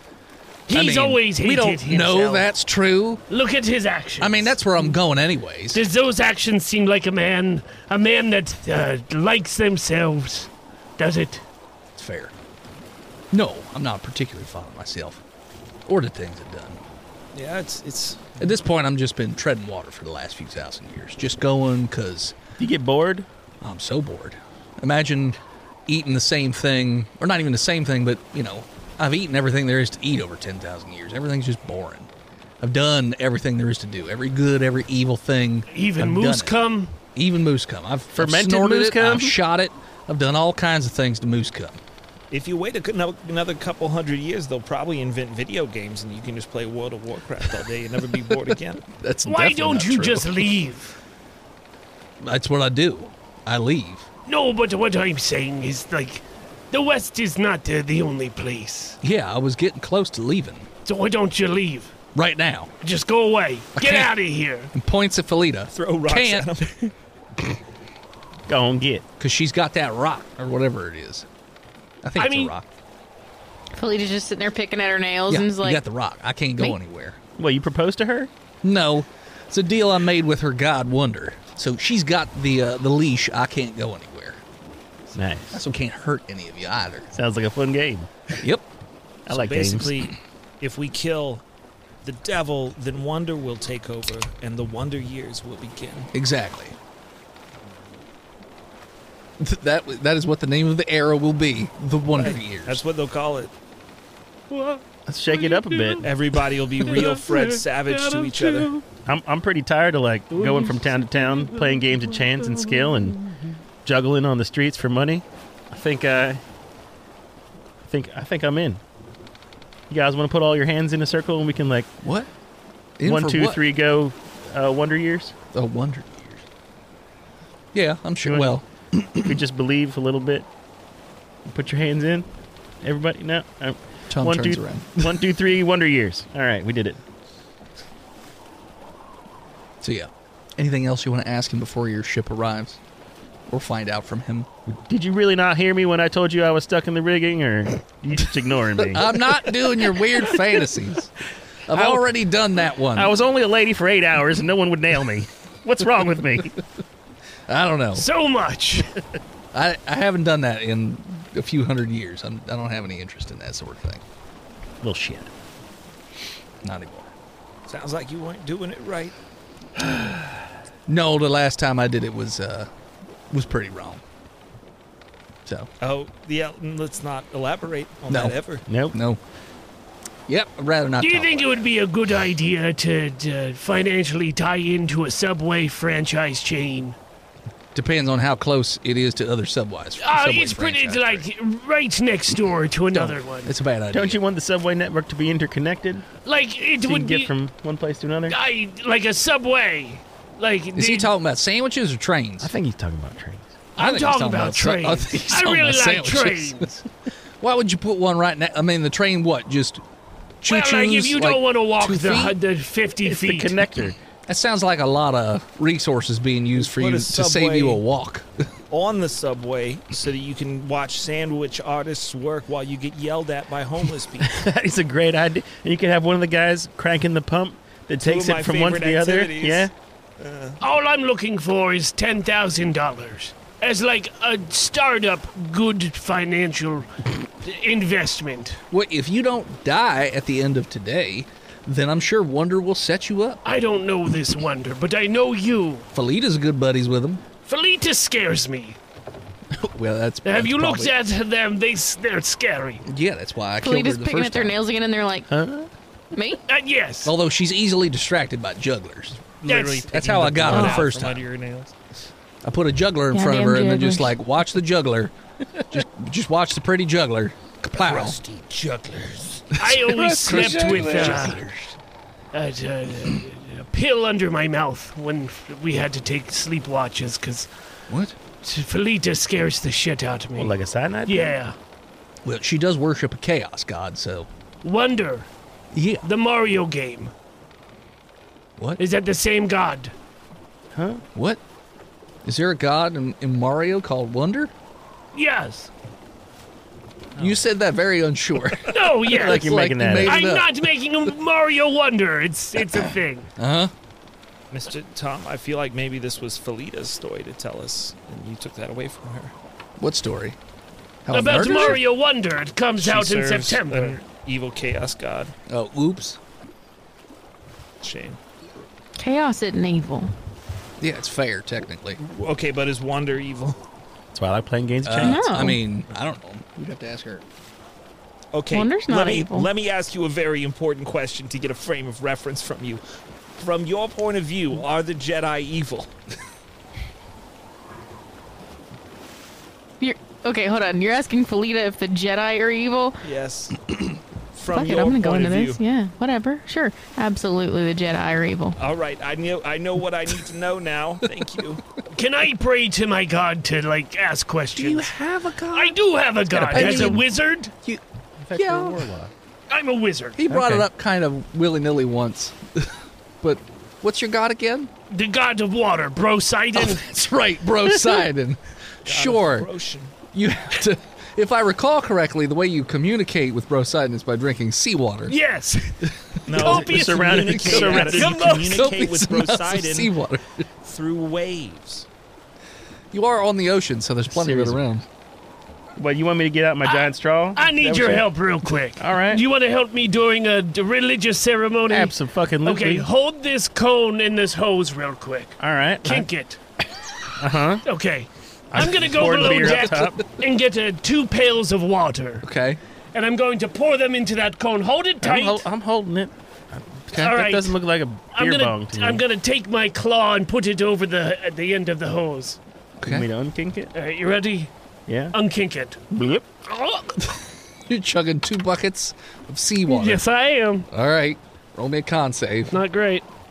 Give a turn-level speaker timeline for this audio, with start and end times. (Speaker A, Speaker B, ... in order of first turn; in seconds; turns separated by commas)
Speaker A: 0.7-2.5, Speaker B: 0.7-3.2, Speaker A: 3.3-4.6, Speaker B: 4.2-5.8, Speaker A: 5.7-11.4, Speaker B: 11.9-12.3, Speaker B: 13.3-15.2, Speaker B: 15.9-16.8, Speaker C: 17.3-18.4, Speaker B: 18.4-22.4, Speaker D: 22.6-23.3, Speaker B: 23.6-32.1, Speaker B: 32.6-36.6, Speaker A: 35.7-36.9, Speaker B: 37.1-41.8, Speaker D: 38.2-39.4, Speaker C: 42.3-48.9, Speaker B: 48.3-50.5, Speaker A: 49.3-51.0, Speaker B: 52.2-54.1, Speaker A: 54.3-59.0, Speaker B: 59.0-60.7, Speaker A: 60.9-61.9, Speaker B: 62.1-62.7, Speaker A: 62.8-64.7, Speaker B: 63.8-64.1, Speaker B: 64.7-66.6, Speaker C: 65.7-66.9, Speaker D: 68.5-69.0, Speaker B: 69.2-71.3, Speaker B: 72.0-72.7, Speaker A: 72.2-72.5, Speaker E: 73.7-75.8, Speaker B: 75.3-77.2, Speaker D: 77.4-78.3, Speaker B: 78.6-84.4, Speaker D: 85.1-85.6, Speaker B: 85.5-87.1, Speaker D: 87.1-88.1, Speaker B: 88.4-88.7, Speaker D: 89.3-90.0, Speaker C: 89.3-91.4, Speaker C: 92.0-96.1, Speaker B: 96.1-96.8, Speaker B: 99.4-102.8, Speaker C: 102.1-103.5, Speaker A: 104.5-106.1, Speaker D: 105.1-106.1, Speaker C: 106.0-108.7, Speaker A: 106.8-108.8, Speaker D: 109.1-113.2, Speaker A: 110.3-113.4, Speaker D: 113.8-116.4, Speaker D: 117.9-118.8, Speaker D: 119.9-121.9, Speaker B: 122.0-122.3, Speaker B: 123.0-123.6, Speaker D: 123.0-125.3, Speaker B: 125.5-126.5, Speaker B: 127.7-129.3, Speaker D: 128.3-128.6, Speaker D: 129.2-130.5, Speaker D: 131.5-132.3, Speaker D: 132.8-137.0, Speaker B: 134.1-135.2, Speaker B: 139.8-142.8, Speaker B: 143.5-144.5, Speaker D: 144.7-149.5, Speaker B: 148.8-151.1, Speaker B: 151.7-153.1, Speaker D: 151.7-152.1, Speaker D: 152.9-156.6, Speaker B: 157.5-158.1, Speaker A: 157.9-159.0, Speaker B: 159.5-164.0, Speaker D: 164.8-165.3, Speaker B: 166.6-167.1, Speaker C: 167.7-169.2, Speaker B: 170.9-172.7, Speaker B: 173.3-174.0, Speaker C: 175.8-178.6, Speaker B: 178.1-178.4, Speaker D: 178.7-179.0, Speaker B: 178.9-179.2, Speaker B: 180.3-181.6, Speaker A: 181.0-187.0, Speaker B: 187.8-191.2, Speaker A: 190.0-193.5, Speaker B: 192.9-194.2, Speaker D: 193.9-196.1, Speaker A: 196.2-197.3, Speaker D: 196.8-198.4, Speaker A: 198.3-201.1, Speaker B: 200.8-202.5, Speaker D: 202.4-203.5, Speaker A: 203.8-206.8, Speaker B: 203.8-206.8, Speaker B: 207.4-209.8, Speaker B: 210.4-212.4, Speaker A: 210.5-213.6, Speaker D: 213.0-214.0, Speaker B: 214.3-218.5, Speaker C: 216.6-217.8, Speaker C: 218.7-224.4, Speaker D: 224.2-229.7, Speaker C: 228.0-230.6, Speaker A: 230.6-238.6, Speaker B: 238.7-243.4, Speaker A: 243.4-245.9, Speaker B: 245.9-247.2, Speaker A: 247.4-248.8, Speaker B: 249.5-250.9, Speaker A: 250.2-252.8, Speaker B: 252.9-254.6, Speaker E: 253.6-255.3, Speaker D: 255.3-255.7, Speaker E: 256.1-256.4, Speaker A: 256.5-257.1, Speaker B: 257.0-259.2, Speaker C: 259.4-261.8, Speaker A: 259.5-259.9, Speaker B: 259.9-261.2, Speaker B: 262.4-265.1, Speaker E: 263.1-264.1, Speaker B: 265.7-268.2, Speaker C: 267.8-269.6, Speaker B: 269.5-271.7, Speaker A: 269.6-271.4, Speaker C: 270.2-271.4, Speaker A: 272.3-277.5, Speaker B: 277.9-278.2, Speaker A: 278.4-280.5, Speaker D: 280.4-281.4, Speaker A: 281.1-281.6, Speaker B: 282.2-284.3, Speaker A: 284.6-285.3, Speaker B: 285.7-286.1, Speaker A: 286.0-287.1, Speaker A: 288.8-289.9, Speaker D: 290.7-291.0, Speaker B: 291.1-291.4, Speaker B: 292.2-294.5, Speaker A: 295.1-295.7, Speaker B: 297.2-300.5, Speaker A: 298.7-303.3, Speaker D: 299.1-300.2, Speaker B: 302.7-303.7, Speaker C: 304.5-309.3, Speaker B: 309.8-310.4, Speaker B: 311.1-311.8, Speaker A: 311.1-314.0, Speaker C: 311.4-311.7, Speaker C: 312.8-315.3, Speaker B: 315.5-316.2, Speaker C: 317.8-318.2, Speaker E: 319.0-320.1, Speaker B: 320.8-322.0, Speaker C: 322.0-323.6, Speaker D: 324.1-325.3, Speaker B: 324.9-327.2, Speaker E: 325.0-325.6, Speaker C: 328.3-332.8, Speaker E: 328.5-329.5, Speaker C: 333.4-335.9, Speaker E: 339.8-343.0, Speaker C: 343.0-343.7, Speaker C: 344.3-345.6, Speaker E: 344.5-348.6, Speaker C: 348.6-351.6, Speaker A: 351.9-354.9, Speaker B: 354.5-355.8, Speaker A: 355.5-357.5, Speaker B: 356.3-357.1, Speaker D: 358.2-359.1, Speaker B: 358.4-358.9, Speaker A: 359.5-360.2, Speaker B: 360.2-364.7, Speaker D: 360.3-360.7, Speaker A: 364.9-366.8, Speaker B: 366.5-369.5, Speaker C: 368.9-369.9, Speaker B: 370.1-375.2, Speaker A: 375.1-378.7, Speaker C: 376.3-379.9, Speaker D: 376.4-378.2, Speaker B: 378.4-380.5, Speaker C: 380.6-381.9, Speaker B: 382.9-384.9, Speaker D: 384.1-384.6, Speaker D: 385.8-388.1, Speaker A: 386.6-396.4, Speaker D: 388.8-389.2, Speaker D: 391.7-392.9, Speaker D: 395.4-396.1, Speaker D: 397.1-397.6, Speaker A: 397.6-402.2, Speaker D: 398.5-400.0, Speaker B: 399.2-399.6, Speaker B: 402.2-402.6, Speaker A: 402.9-405.5, Speaker D: 405.0-409.0, Speaker A: 406.9-407.6, Speaker A: 408.1-412.4, Speaker B: 412.8-413.1, Speaker D: 412.9-413.7, Speaker A: 413.7-414.5, Speaker D: 414.9-415.2, Speaker A: 415.1-415.8, Speaker D: 415.9-416.3, Speaker A: 416.5-416.8, Speaker B: 417.0-420.1, Speaker A: 419.7-420.7, Speaker B: 420.7-422.6, Speaker A: 422.5-423.1